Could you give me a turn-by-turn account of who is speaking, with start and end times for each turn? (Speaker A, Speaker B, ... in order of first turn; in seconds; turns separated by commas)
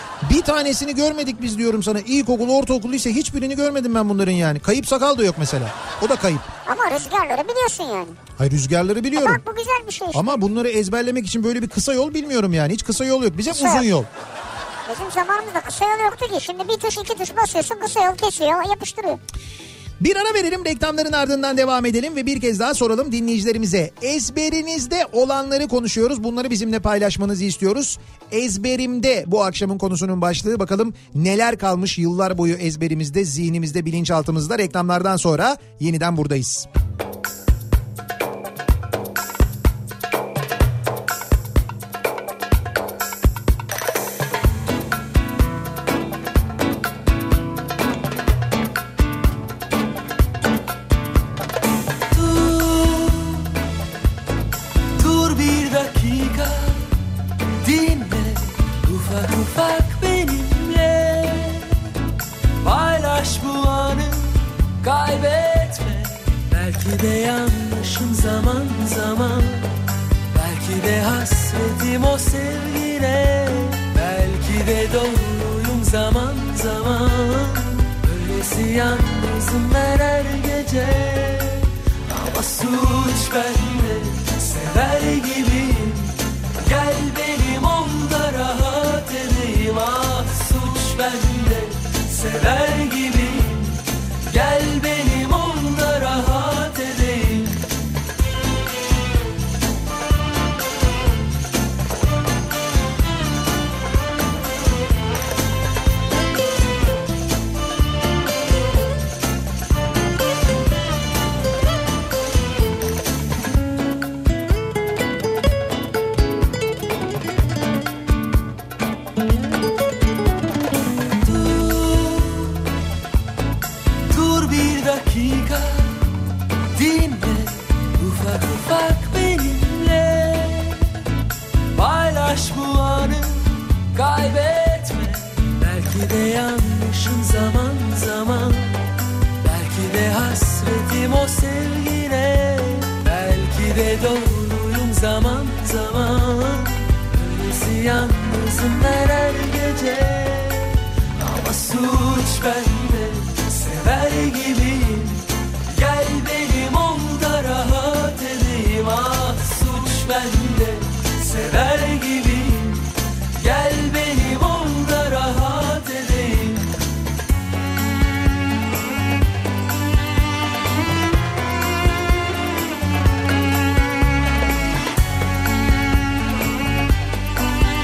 Speaker A: 0.2-6.5, Speaker B: 6.7-8.2, Speaker A: 8.4-9.4, Speaker B: 9.2-10.4, Speaker A: 10.1-14.1, Speaker B: 13.5-13.8, Speaker B: 14.9-19.2, Speaker A: 20.0-36.7, Speaker C: 52.1-53.6, Speaker C: 55.0-57.0, Speaker C: 57.6-61.9, Speaker C: 62.6-69.7, Speaker C: 70.3-97.7, Speaker C: 121.2-122.7, Speaker C: 124.1-126.2, Speaker C: 126.7-131.0, Speaker C: 131.7-138.8, Speaker C: 139.4-166.7